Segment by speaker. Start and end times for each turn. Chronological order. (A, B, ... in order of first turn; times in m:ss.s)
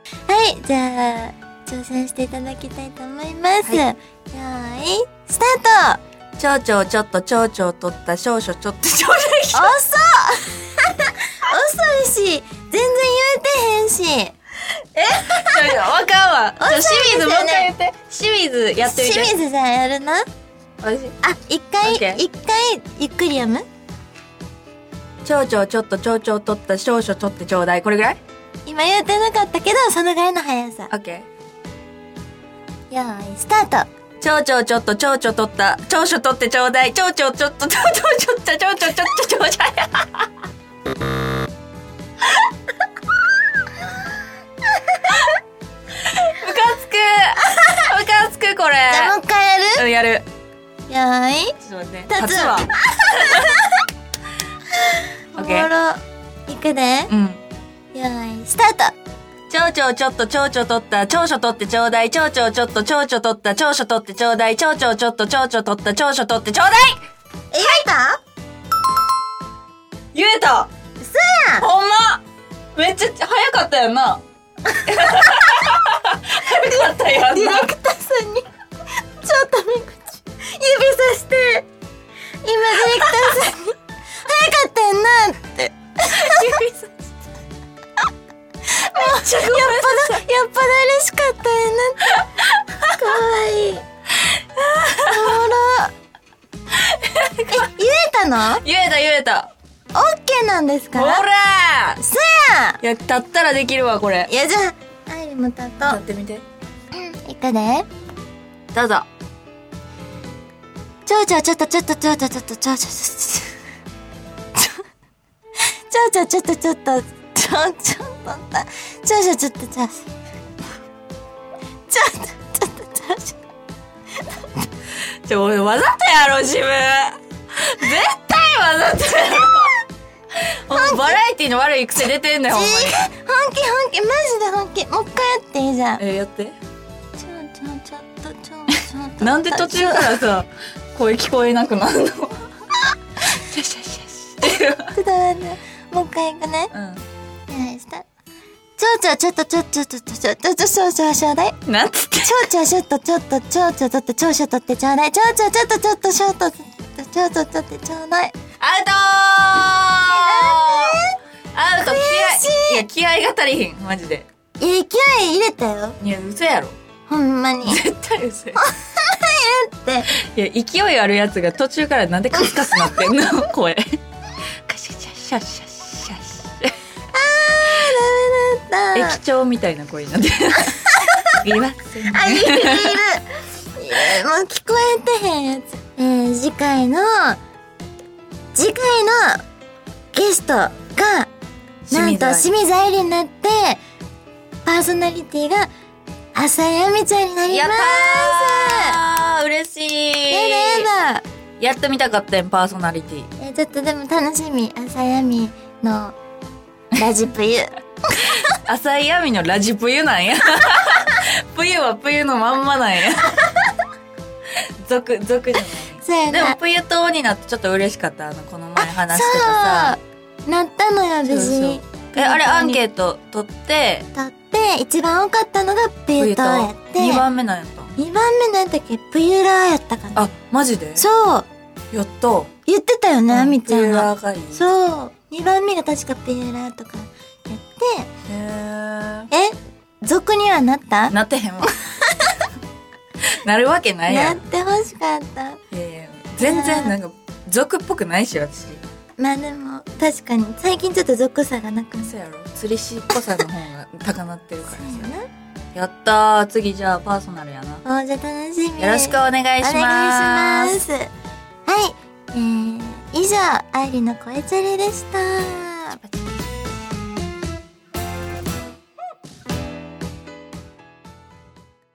0:00.3-0:06.0 A
0:06.4-0:09.8 B
0:09.5-0:14.3 A
0:14.9-0:19.3 B
0:15.3-0:15.8 A
0:16.6-0:17.7 A
0:18.8-0:20.2 A
0:20.8-0:21.2 B
0:21.2-0:23.6 A
0:21.8-0:22.2 B
0:25.2-0:28.2 B
0:28.6-0:30.9 A
0:30.9-0:31.3 B
0:32.9-0:33.9 A
0:34.2-0:40.3 B
0:46.0-0:49.1 B
0:48.9-0:49.8 A
0:49.7-0:50.2 B
0:50.9-0:51.6 A
0:51.6-0:53.5 B
0:52.1-0:53.8 A
0:54.9-0:57.1 A
0:55.3-0:55.7 B
0:57.1-0:57.4 B
0:57.9-0:58.9 A
0:59.5-1:07.0 B
1:07.5-1:08.2 A
1:10.1-1:10.7 B
1:11.0-1:11.7 A
1:11.6-1:12.2 B
1:12.7-1:14.2 B
1:14.8-1:17.7 B
1:17.1-1:18.5 A
1:19.2-1:21.7 A
1:22.4-1:26.5 A
1:26.1-1:27.2 B
1:28.7-1:32.3 A
1:28.9-1:30.2 B
1:32.8-1:33.8 A
1:34.3-1:35.3 B
1:35.0-1:35.9 A
1:36.8-1:37.7 B
1:37.5-1:38.6 A
1:38.6-1:39.5 B
1:39.9-1:41.2 A
1:40.9-1:42.0 B
1:42.0-1:42.8 A
1:42.8-1:44.3 B
1:44.2-1:46.0 A
1:45.8-1:46.4 B
1:46.9-1:47.9 A
1:48.7-1:49.1 B
1:51.0-1:53.5 A
1:54.6-1:54.8 A
1:55.9-2:00.1 A
2:01.9-2:03.4 A
2:04.2-2:04.7 A
2:05.2-2:09.8 B
2:10.5-2:13.1 B
2:10.7-2:11.2 A
2:12.5-2:16.0 A
2:16.0-2:16.6 B
2:17.2-2:20.2 A
2:19.2-2:22.4 B
2:23.2-2:24.9 B
2:24.5-2:26.7 A
2:26.7-2:27.0 B
2:27.5-2:28.0 A
2:28.8-2:31.6 A
2:31.6-2:32.5 B
2:32.2-2:38.3 A
2:38.6-2:41.0 B
2:40.1-2:41.2 A
2:41.5-2:44.3 B
2:41.8-2:42.8 A
2:44.6-2:46.0 A
2:46.0-2:46.8 B
2:47.1-2:47.8 A
2:47.6-2:48.6 B
2:48.6-2:50.1 A
2:50.2-2:54.0 B
2:54.6-2:56.8 B
2:57.1-2:59.2 A
2:58.9-3:03.0 B
3:00.9-3:01.4 A
3:02.1-3:07.4 A
3:08.5-3:09.4 A
3:10.1-3:11.3 A
3:11.9-3:12.5 B
3:11.9-3:13.8 A
3:14.6-3:15.7 A
3:16.3-3:19.0 A
3:17.5-3:20.9 B
3:20.3-3:21.2 A
3:21.6-3:23.3 B
3:23.4-3:26.2 A
3:26.9-3:27.7 A
3:28.4-3:33.5 B
3:34.8-3:40.0 B
3:36.0-3:36.6 A
3:38.8-3:42.8 A
3:41.2-3:44.1 B
3:44.1-3:47.2 A
3:46.2-3:47.9 B
3:48.0-3:50.2 A
3:50.1-3:51.1 B
3:51.0-3:51.5 A
3:51.9-3:52.5 B
3:52.6-3:58.1 A
3:53.3-3:54.6 B
3:58.3-3:59.3 B
3:59.3-4:01.1 A
4:01.1-4:01.7 B
4:01.7-4:02.3 A
4:03.4-4:04.4 B
4:04.1-4:05.6 A
4:05.7-4:08.8 B
4:06.4-4:06.9 A
4:09.2-4:12.1 A
4:12.0-4:15.1 B
4:14.7-4:15.3 A
4:15.7-4:17.8 B
4:17.8-4:21.1 A
4:18.8-4:20.8 B
4:21.6-4:26.0 A